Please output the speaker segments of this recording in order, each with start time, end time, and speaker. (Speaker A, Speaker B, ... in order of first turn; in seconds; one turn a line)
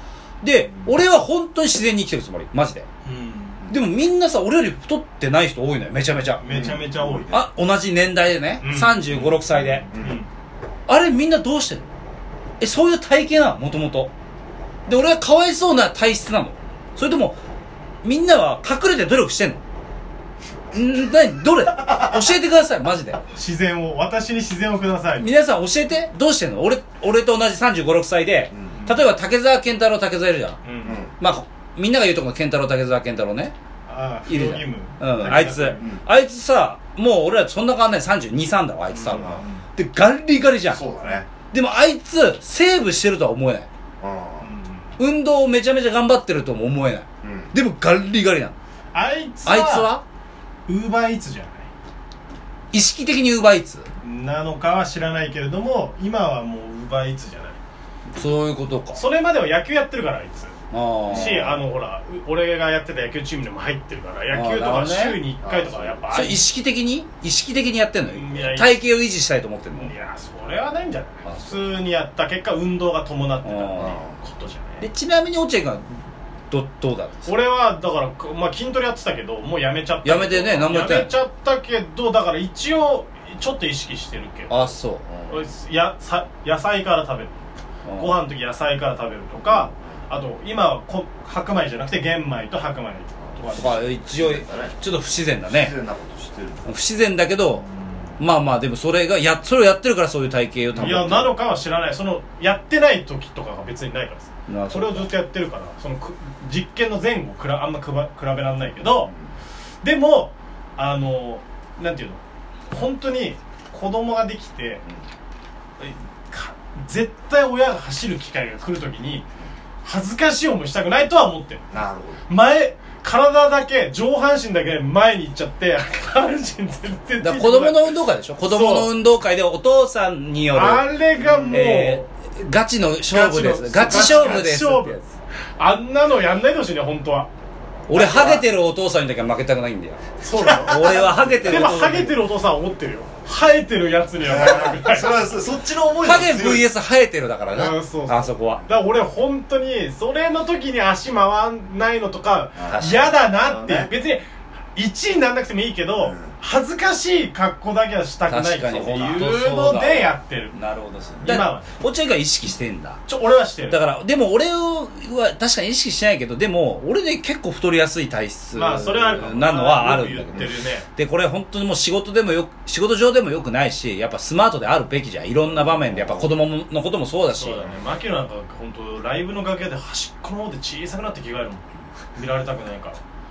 Speaker A: 0.4-2.9
Speaker B: 3.0-3.6
Speaker A: 3.7-6.4
Speaker B: 6.4-7.4
Speaker C: 6.5-7.4
Speaker A: 7.3-9.9
Speaker B: 8.6-10.3
Speaker C: 9.9-10.2
Speaker A: 10.9-11.9
Speaker A: 12.6-14.1
Speaker A: 14.9-17.4
Speaker A: 18.0-19.6
Speaker A: 20.7-23.2
Speaker B: 23.3-25.3
Speaker A: 25.1-30.6
Speaker C: 28.5-28.8
Speaker B: 30.6-31.0
Speaker C: 30.8-31.1
Speaker A: 31.2-33.5
Speaker B: 33.9-35.9
Speaker A: 34.3-40.8
Speaker C: 35.8-36.0
Speaker B: 38.9-39.6
Speaker C: 39.1-39.5
Speaker C: 40.7-41.3
Speaker A: 41.5-43.7
Speaker C: 44.0-44.5
Speaker B: 44.4-45.0
Speaker A: 45.0-48.5
Speaker C: 47.2-47.5
Speaker B: 48.9-49.9
Speaker A: 49.5-50.0
Speaker B: 50.7-51.7
Speaker A: 52.7-53.9
Speaker B: 54.0-57.6
Speaker A: 58.1-59.0
Speaker B: 58.9-60.5
Speaker A: 60.7-61.6
Speaker B: 61.1-66.5
Speaker C: 61.1-61.4
Speaker A: 64.3-65.2
Speaker C: 65.4-66.1
Speaker A: 66.1-69.9
Speaker B: 68.1-68.8
Speaker B: 69.8-74.8
Speaker A: 71.2-71.7
Speaker A: 73.4-74.0
Speaker C: 73.8-74.2
Speaker A: 74.8-75.9
Speaker A: 76.5-77.3
Speaker B: 77.2-84.7
Speaker A: 80.0-81.1
Speaker A: 84.5-85.0
Speaker C: 85.0-85.4
Speaker B: 85.3-87.3
Speaker A: 87.8-88.2
Speaker B: 88.0-94.0
Speaker C: 89.5-89.9
Speaker C: 93.4-94.8
Speaker A: 93.5-95.8
Speaker C: 95.5-96.7
Speaker A: 96.7-97.7
Speaker A: 98.2-101.3
Speaker C: 100.8-101.2
Speaker B: 100.8-109.1
Speaker A: 104.5-105.1
Speaker C: 109.0-109.3
Speaker B: 109.8-114.8
Speaker B: 115.8-119.2
Speaker B: 119.8-121.7
Speaker C: 121.7-122.2
Speaker B: 122.3-127.9
Speaker A: 127.2-130.9
Speaker B: 128.4-128.9
Speaker B: 130.5-132.1
Speaker C: 131.2-131.6
Speaker A: 131.5-135.1
Speaker B: 133.1-135.0
Speaker C: 133.9-134.4
Speaker B: 135.6-137.3
Speaker A: 137.9-142.2
Speaker C: 137.9-138.4
Speaker B: 138.1-138.4
Speaker B: 140.2-145.3
Speaker C: 140.4-140.8
Speaker C: 144.2-146.7
Speaker A: 146.0-148.6
Speaker B: 147.5-160.6
Speaker C: 152.6-153.9
Speaker A: 152.7-153.1
Speaker C: 156.0-156.3
Speaker A: 158.3-163.0
Speaker B: 161.2-161.8
Speaker B: 163.1-163.8
Speaker A: 163.7-177.7
Speaker B: 168.5-170.9
Speaker C: 175.7-176.3
Speaker B: 177.4-183.0